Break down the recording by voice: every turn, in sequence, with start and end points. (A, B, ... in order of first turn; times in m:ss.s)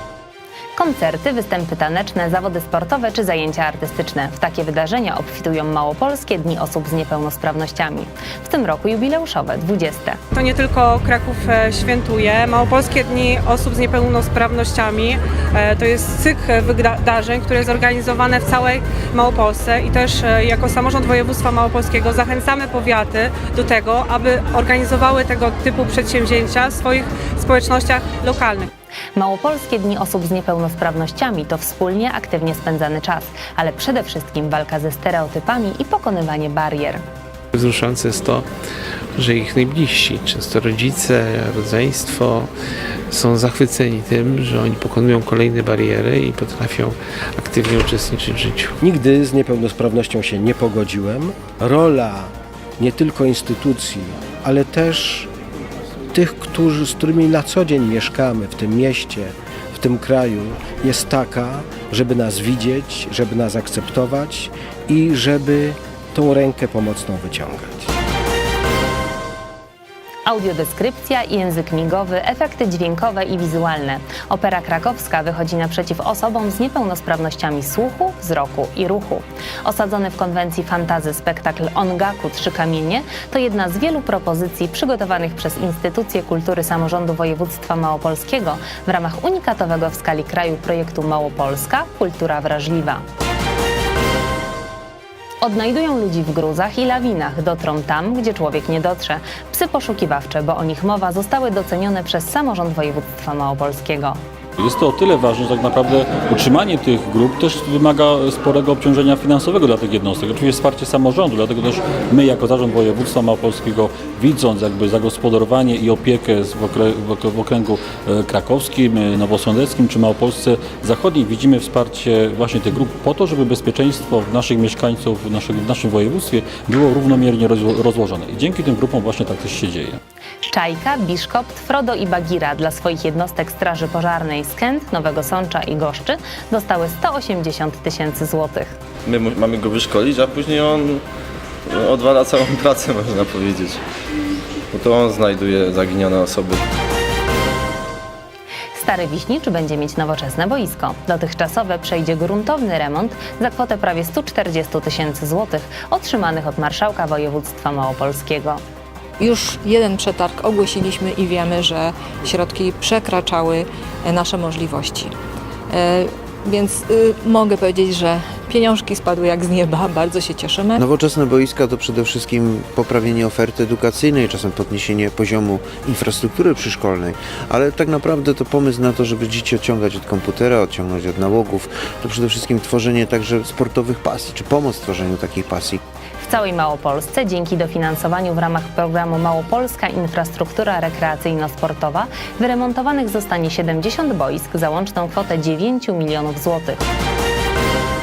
0:00.8-0:10.2 A
0:10.3-0:28.7 B
0:29.2-0:37.0 A
0:37.5-0:38.4 C
0:39.1-0:42.5 C
0:43.1-0:48.7 C
0:48.8-0:55.3 D
0:56.1-1:07.9 D
1:10.2-1:33.0 A
1:35.4-1:44.2 A
1:44.6-2:10.0 E
2:10.4-2:18.8 A
2:19.1-2:21.0 F
2:21.7-2:23.8 F
2:24.7-2:26.6 F
2:28.7-2:38.6 A
2:39.2-2:45.1 G
2:45.7-2:50.6 G
2:50.8-3:05.8 H
3:06.2-3:16.8 A